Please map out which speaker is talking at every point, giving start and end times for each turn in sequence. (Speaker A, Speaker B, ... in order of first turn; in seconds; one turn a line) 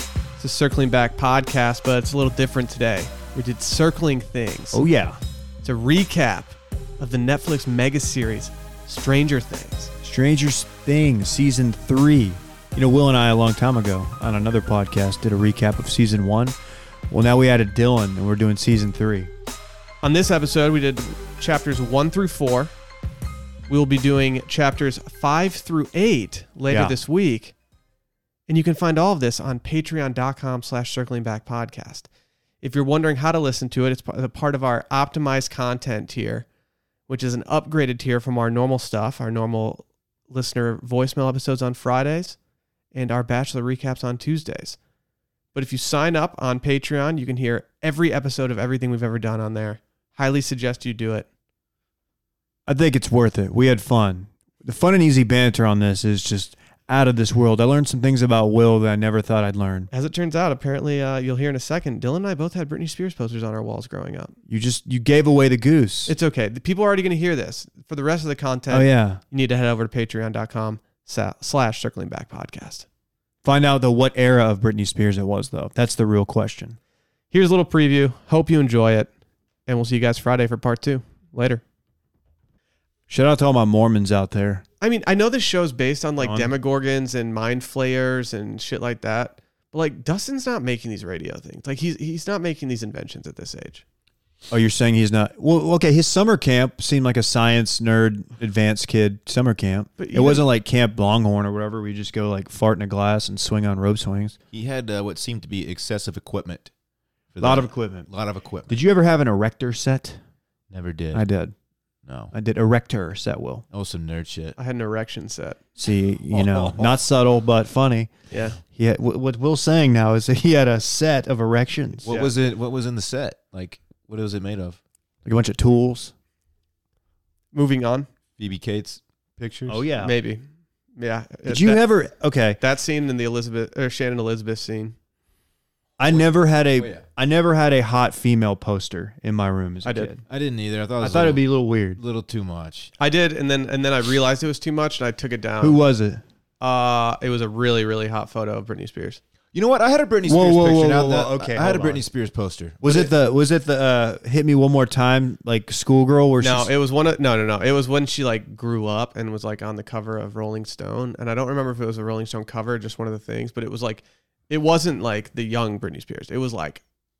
Speaker A: 0.4-4.8
Speaker B: 4.7-5.2
Speaker A: 5.6-9.9
Speaker B: 10.0-16.6
Speaker B: 17.1-19.3
Speaker A: 20.0-22.7
Speaker A: 23.7-27.5
Speaker B: 26.7-26.9
Speaker A: 28.5-32.1
Speaker A: 32.6-36.5
Speaker A: 37.1-42.4
Speaker A: 42.9-44.8
Speaker A: 45.5-51.3
Speaker B: 52.7-59.9
Speaker A: 59.9-64.3
Speaker B: 64.5-66.1
Speaker A: 66.1-72.8
Speaker B: 68.7-69.2
Speaker B: 73.4-76.8
Speaker A: 77.3-79.1
Speaker A: 79.7-81.6
Speaker B: 83.1-84.6
Speaker A: 84.8-93.8
Speaker B: 86.2-86.5
Speaker B: 94.5-104.3
Speaker A: 100.0-100.5
Speaker C: 104.5-106.7
Speaker C: 107.3-108.8
Speaker B: 107.4-108.1
Speaker B: 108.7-110.2
Speaker C: 110.7-111.2
Speaker B: 111.1-111.5
Speaker C: 112.0-112.3
Speaker B: 112.3-113.6
Speaker C: 113.7-114.6
Speaker A: 114.6-115.6
Speaker B: 115.8-118.1
Speaker C: 116.3-117.0
Speaker A: 118.3-118.6
Speaker B: 118.8-122.3
Speaker C: 122.0-124.8
Speaker B: 125.2-126.1
Speaker A: 127.5-128.1
Speaker C: 128.4-129.8
Speaker B: 129.7-130.2
Speaker A: 129.9-130.4
Speaker A: 130.9-131.8
Speaker B: 131.5-132.6
Speaker A: 132.6-134.9
Speaker B: 136.0-140.2
Speaker C: 136.1-137.1
Speaker A: 139.8-140.1
Speaker C: 140.3-142.9
Speaker B: 141.0-142.0
Speaker A: 143.0-145.8
Speaker B: 145.6-146.2
Speaker A: 146.6-149.2
Speaker C: 149.5-153.0
Speaker B: 150.2-152.0
Speaker B: 152.8-156.7
Speaker A: 156.4-166.8